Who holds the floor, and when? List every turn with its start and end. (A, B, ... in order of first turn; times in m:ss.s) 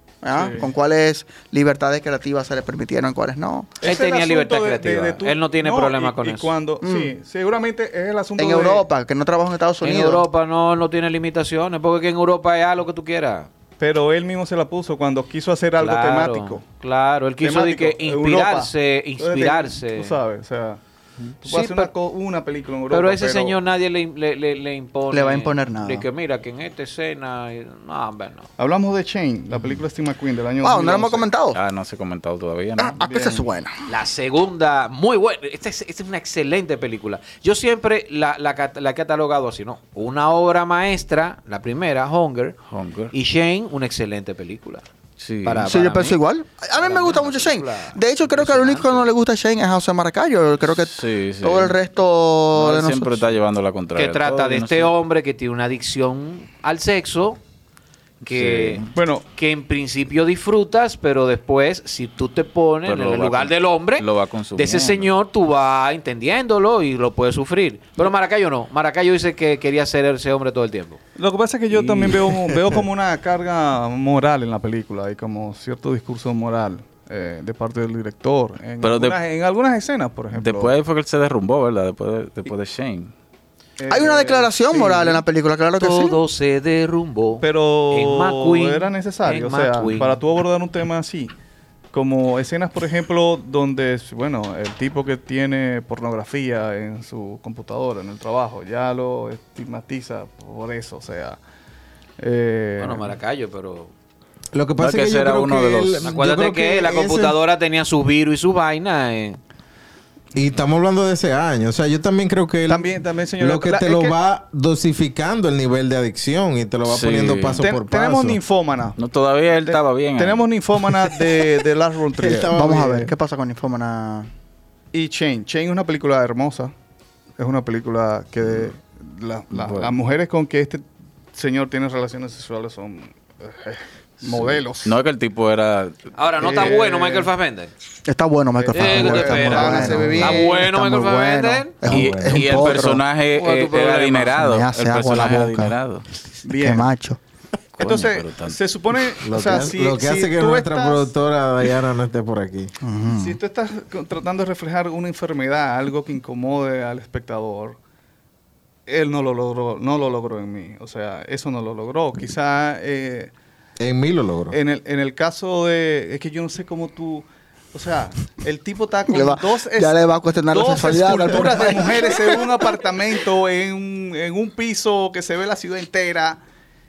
0:00.2-0:03.8 A
0:00.3-0:00.7 B
0:03.8-0:08.9 B
0:03.8-0:06.5 C
0:06.8-0:07.1 A
0:08.4-0:10.3 A
0:09.8-0:13.5 C
0:13.8-0:16.6 B
0:15.8-0:20.2 C
0:17.4-0:20.8 B
0:21.4-0:23.6 B
0:21.4-0:21.9 C
0:22.9-0:28.5 C
0:25.1-0:26.1 A
0:28.6-0:31.3 B
0:30.6-0:31.6 A
0:31.5-0:33.0 D
0:32.8-0:33.8 A
0:33.0-0:33.5 B
0:33.9-0:42.6 C
0:42.7-0:43.1 D
0:43.1-0:44.9 C
0:45.2-0:45.7 D
0:45.4-0:46.2 C
0:45.6-0:53.2 A
0:46.8-0:49.1 C
0:50.7-0:51.8 D
0:52.5-0:54.9 D
0:54.0-0:57.4 C
0:58.2-0:58.9 D
0:58.2-1:11.0 C
0:58.9-0:59.3 B
1:02.9-1:05.1 D
1:11.2-1:20.8 B
1:11.7-1:12.3 D
1:18.8-1:19.2 D
1:20.3-1:23.1 D
1:23.8-1:25.2 B
1:23.9-1:26.2 A
1:25.8-1:30.2 C
1:27.4-1:31.3 B
1:31.9-1:41.4 B
1:42.2-1:43.1 B
1:42.8-1:43.9 C
1:44.5-1:47.4 E
1:44.8-1:46.1 D
1:46.0-1:49.4 C
1:50.3-1:58.4 E
1:52.7-1:54.2 B
1:56.9-1:57.6 D
1:57.6-1:59.0 B
1:59.0-2:00.4 D
1:59.6-2:03.1 B
2:02.1-2:03.1 E
2:02.5-2:04.3 A
2:04.9-2:06.7 B
2:07.4-2:15.0 B
2:08.4-2:08.7 D
2:09.5-2:09.9 D
2:14.2-2:16.0 D
2:16.2-2:17.7 C
2:16.4-2:17.3 B
2:18.0-2:23.0 A
2:18.6-2:20.6 B
2:18.7-2:21.8 C
2:19.6-2:20.4 E
2:21.9-2:22.6 E
2:21.9-2:26.0 D
2:23.3-2:24.4 C
2:24.3-2:25.8 A
2:26.4-2:26.9 B
2:26.5-2:27.2 A
2:27.8-2:31.1 B
2:27.8-2:28.6 D
2:29.2-2:32.7 E
2:32.8-2:33.4 A
2:33.1-2:37.8 B
2:38.9-2:43.3 B
2:43.8-2:44.6 E
2:44.5-2:56.4 B
2:49.1-2:52.7 A